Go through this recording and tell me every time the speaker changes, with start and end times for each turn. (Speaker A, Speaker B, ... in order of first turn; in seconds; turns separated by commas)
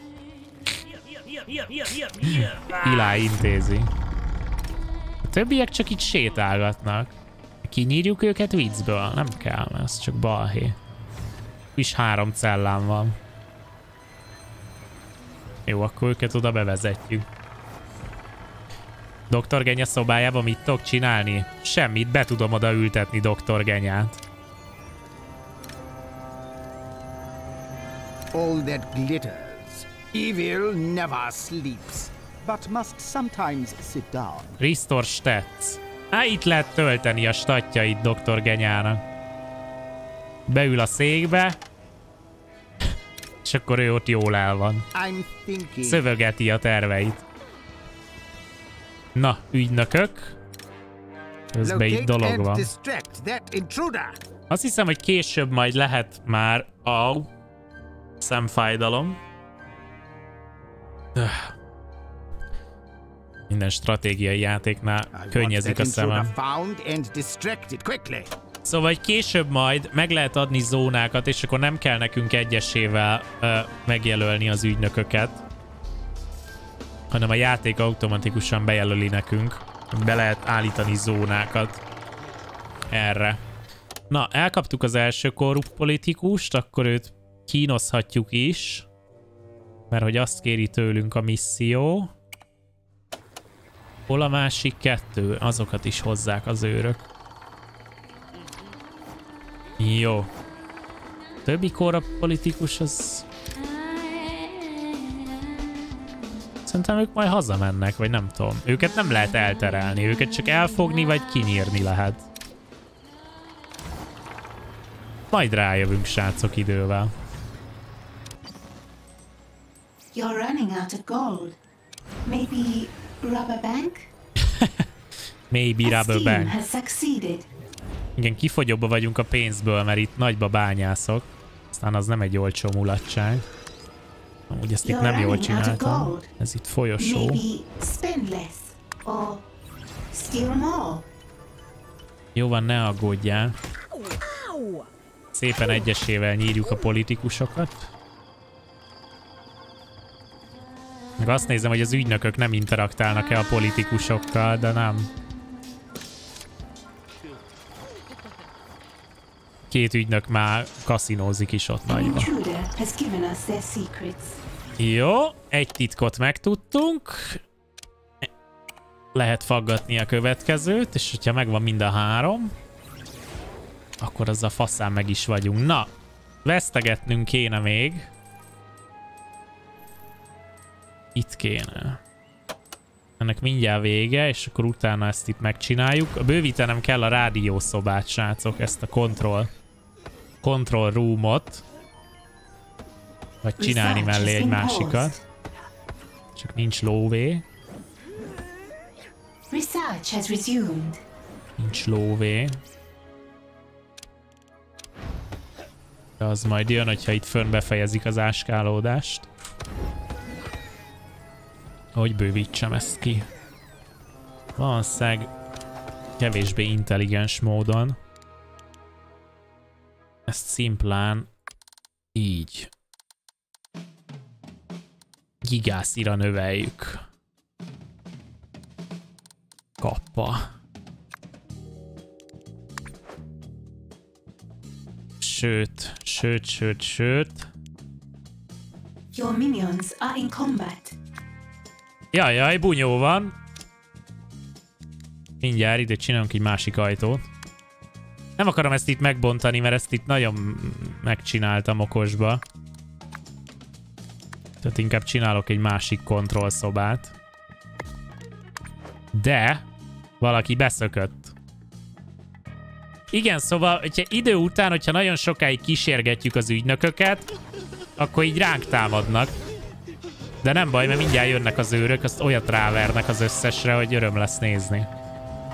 Speaker A: 1.9-3.9, Speaker A: 5.2-10.8, Speaker A: 11.8-13.2, Speaker A: 15.7-17.2, Speaker A: 19.3-24.2, Speaker B: 28.3-34.6, Speaker A: 34.6-39.0, Speaker A: 40.5-41.6, Speaker A: 43.4-44.9, Speaker B: 44.9-46.0, Speaker A: 45.8-47.2, Speaker A: 49.1-50.4, Speaker A: 51.5-52.7, Speaker B: 51.6-54.2, Speaker A: 54.5-57.3, Speaker A: 58.2-59.2, Speaker A: 61.1-61.5, Speaker A: 63.5-66.3, Speaker B: 65.1-68.3, Speaker A: 68.6-75.4, Speaker A: 77.1-81.8, Speaker A: 82.9-83.4, Speaker A: 84.1-88.9, Speaker A: 89.9-92.1, Speaker A: 94.1-97.0, Speaker A: 99.8-100.3, Speaker A: 101.4-103.2, Speaker A: 106.6-112.2, Speaker A: 115.3-117.1, Speaker C: 120.1-121.6, Speaker C: 122.2-124.1, Speaker A: 124.5-124.8, Speaker A: 125.5-126.6, Speaker C: 125.8-127.5, Speaker A: 128.2-133.4, Speaker A: 134.5-137.4, Speaker C: 134.8-136.3, Speaker C: 137.0-139.4, Speaker C: 140.1-141.1, Speaker A: 142.3-143.6, Speaker A: 145.3-147.9, Speaker A: 151.2-155.1, Speaker A: 159.7-162.3, Speaker C: 161.9-164.4, Speaker A: 164.8-167.4, Speaker A: 169.1-172.5, Speaker A: 174.0-175.9, Speaker A: 176.4-178.1, Speaker A: 181.1-182.0, Speaker A: 183.2-189.5, Speaker A: 190.4-191.6, Speaker A: 193.4-195.2, Speaker C: 193.6-195.2, Speaker A: 196.3-197.4, Speaker C: 199.5-201.0, Speaker A: 201.6-202.6, Speaker A: 206.2-209.3, Speaker A: 211.9-213.3, Speaker A: 214.6-215.3, Speaker A: 216.2-218.0, Speaker A: 220.3-221.3, Speaker A: 222.1-222.7, Speaker A: 225.4-227.0, Speaker A: 229.8-230.5, Speaker A: 235.2-237.5, Speaker C: 239.1-240.9, Speaker A: 242.1-243.3, Speaker A: 245.4-247.2, Speaker A: 248.4-252.4, Speaker A: 254.6-257.1, Speaker A: 259.1-259.6, Speaker A: 260.2-261.3, Speaker A: 263.1-267.3, Speaker A: 268.0-269.3, Speaker A: 270.4-274.9